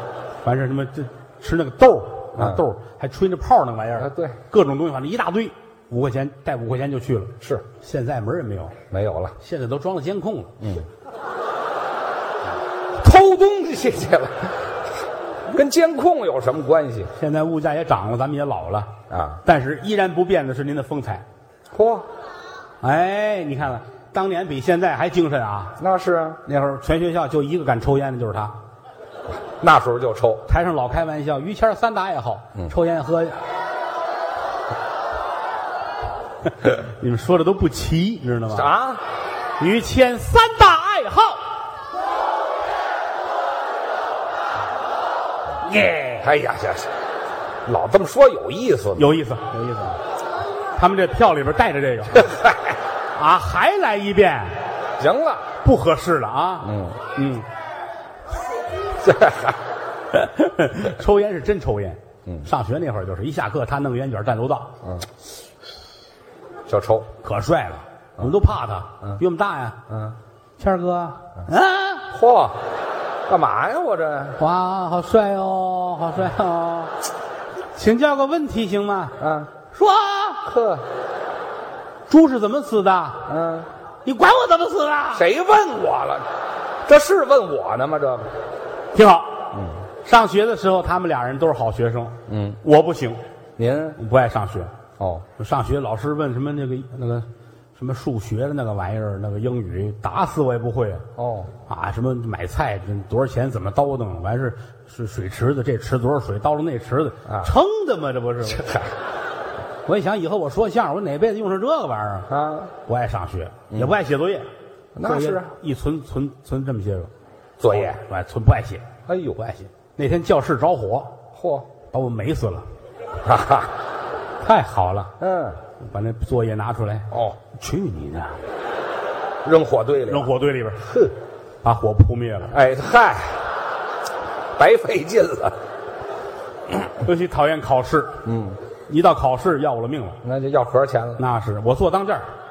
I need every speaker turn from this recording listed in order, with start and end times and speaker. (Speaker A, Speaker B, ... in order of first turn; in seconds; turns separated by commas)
Speaker A: 0.4-8.8, Speaker B: 2.4-2.6, Speaker B: 4.0-4.4, Speaker B: 8.9-9.3, Speaker A: 9.4-10.6, Speaker B: 10.6-10.9, Speaker B: 13.0-14.6, Speaker B: 15.5-17.1, Speaker A: 17.2-18.9, Speaker B: 19.1-19.4, Speaker A: 19.4-21.2, Speaker B: 21.7-22.1, Speaker A: 22.8-25.8, Speaker B: 25.8-26.4, Speaker A: 26.5-28.6, Speaker B: 29.6-30.4, Speaker A: 30.5-33.4, Speaker A: 36.6-38.7, Speaker B: 38.5-39.0, Speaker A: 39.6-41.4, Speaker A: 45.6-46.2, Speaker B: 46.2-46.9, Speaker B: 47.7-49.1, Speaker A: 49.0-50.0, Speaker A: 50.8-52.3, Speaker A: 53.1-54.6, Speaker B: 55.0-55.5, Speaker A: 55.6-57.5, Speaker B: 56.6-57.0, Speaker B: 59.0-59.6, Speaker A: 60.1-64.7, Speaker B: 66.7-67.1, Speaker A: 67.2-69.8, Speaker B: 69.9-70.2, Speaker A: 70.6-72.1, Speaker B: 72.1-72.6, Speaker B: 73.3-74.4, Speaker A: 74.4-76.9, Speaker A: 77.8-79.2, Speaker B: 79.2-79.5, Speaker A: 79.7-80.5, Speaker B: 80.5-80.8, Speaker A: 82.1-83.3, Speaker B: 83.3-83.7, Speaker A: 84.0-85.3, Speaker B: 85.1-86.3, Speaker B: 86.9-88.3, Speaker A: 88.9-89.5, Speaker B: 89.5-89.8, Speaker A: 90.0-93.2, Speaker B: 92.3-92.6, Speaker B: 93.6-94.0, Speaker A: 94.0-94.7, Speaker B: 95.0-95.3, Speaker A: 95.4-101.0, Speaker B: 101.2-101.5, Speaker A: 101.7-108.7, Speaker B: 108.6-108.9, Speaker A: 109.9-112.3, Speaker B: 112.3-112.7, Speaker A: 112.8-114.5, Speaker B: 115.0-115.5, Speaker A: 115.0-117.1, Speaker B: 117.6-118.0, Speaker A: 117.7-121.2, Speaker B: 119.1-119.4, Speaker B: 121.3-121.7, Speaker A: 121.9-122.7, Speaker B: 123.2-123.7, Speaker A: 124.4-125.2, Speaker B: 125.2-125.6, Speaker A: 125.8-128.4, Speaker B: 127.1-127.4, Speaker B: 129.4-130.3, Speaker A: 130.1-131.1, Speaker A: 131.6-132.5, Speaker B: 132.5-133.4, Speaker B: 134.6-135.6, Speaker A: 137.0-138.2, Speaker B: 138.2-138.6, Speaker A: 138.9-140.2, Speaker B: 140.2-141.2, Speaker A: 141.2-142.3